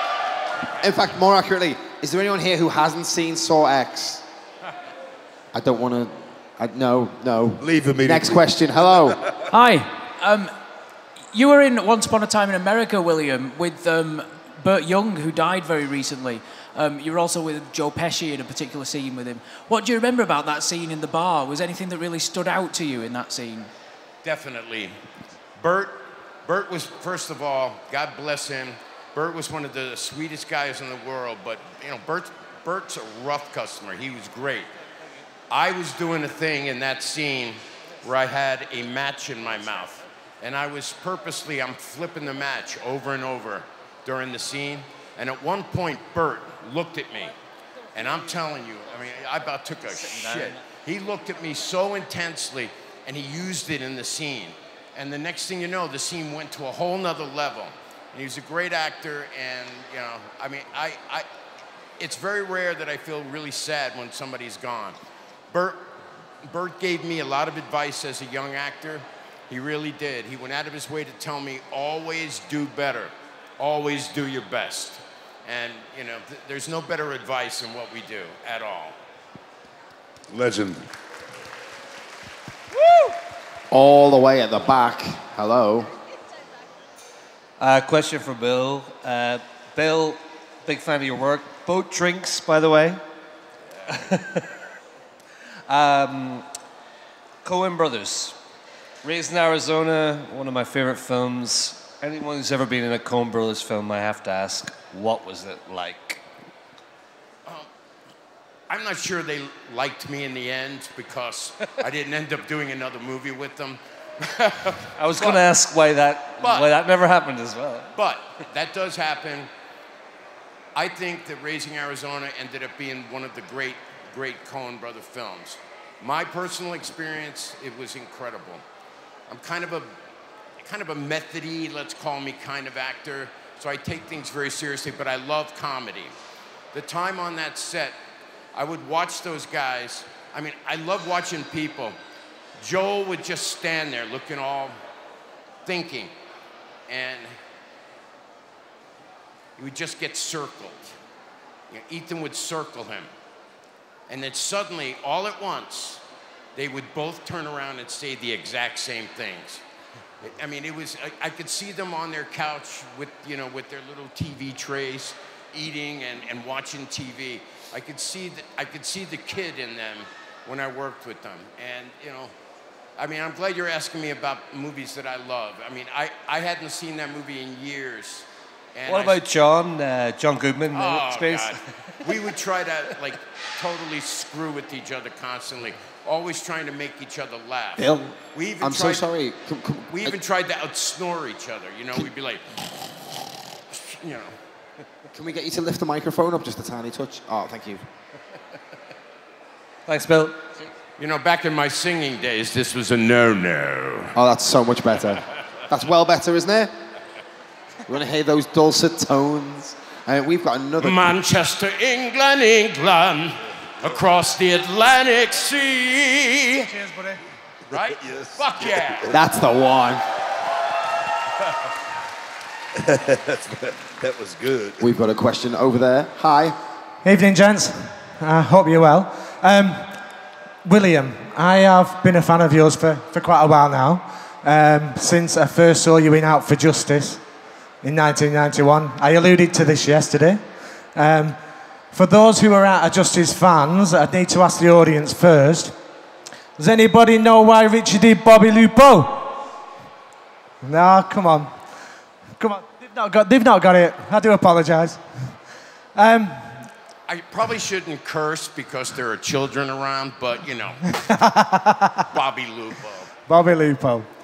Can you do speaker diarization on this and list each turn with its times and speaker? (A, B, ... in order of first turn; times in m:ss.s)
0:00.8-0:04.2 A
0:05.5-0:09.2 A
0:07.6-0:08.5 B
0:09.5-0:10.5 C
0:11.3-0:23.7 C
0:24.2-0:24.9 D
0:25.6-0:34.7 D
0:35.5-0:47.3 D
0:47.9-1:01.2 D
1:02.0-1:05.0 D
1:05.5-1:05.9 D
1:06.4-1:18.9 D
1:20.3-1:20.8 B
1:23.7-1:25.9 A
1:27.6-1:33.0 E
1:33.9-1:34.5 E
1:35.7-1:36.5 E
1:37.4-1:38.4 E
1:39.0-1:46.2 E
1:48.7-1:55.4 D
1:55.0-1:57.9 E
1:56.4-1:56.7 D
1:57.9-1:59.5 D
2:00.7-2:08.6 D
2:09.3-2:09.9 D
2:10.6-2:16.1 D
2:16.7-2:17.9 D
2:18.5-2:22.0 D
2:22.6-2:24.8 D
2:25.6-2:26.1 D
2:26.9-2:27.3 D
2:29.6-2:30.9 D
2:31.7-2:33.1 D
2:34.1-2:36.0 D
2:36.6-2:39.6 D
2:40.2-2:52.3 D
2:53.0-2:59.2 D
2:58.8-3:02.3 E
3:00.7-3:09.1 D
3:07.8-3:10.2 A
3:09.9-3:12.4 D
3:13.7-3:14.4 D
3:15.1-3:17.8 A
3:19.8-3:20.7 E
3:21.0-3:24.1 D
3:24.1-3:26.7 A
3:27.9-3:31.1 A
3:30.8-3:36.8 D
3:36.8-3:37.2 F
3:37.7-3:39.1 D
3:37.7-3:39.0 B
3:39.1-3:40.0 A
3:42.8-3:44.8 B
3:44.8-3:46.6 A
3:47.0-3:50.0 F
3:50.6-3:57.2 F
3:57.8-4:01.4 F
4:01.9-4:05.8 F
4:06.6-4:09.4 F
4:10.6-4:11.5 F
4:12.4-4:15.4 F
4:15.9-4:16.7 F
4:17.1-4:20.9 D
4:20.9-4:22.0 F
4:22.1-4:23.1 D
4:23.3-4:24.1 F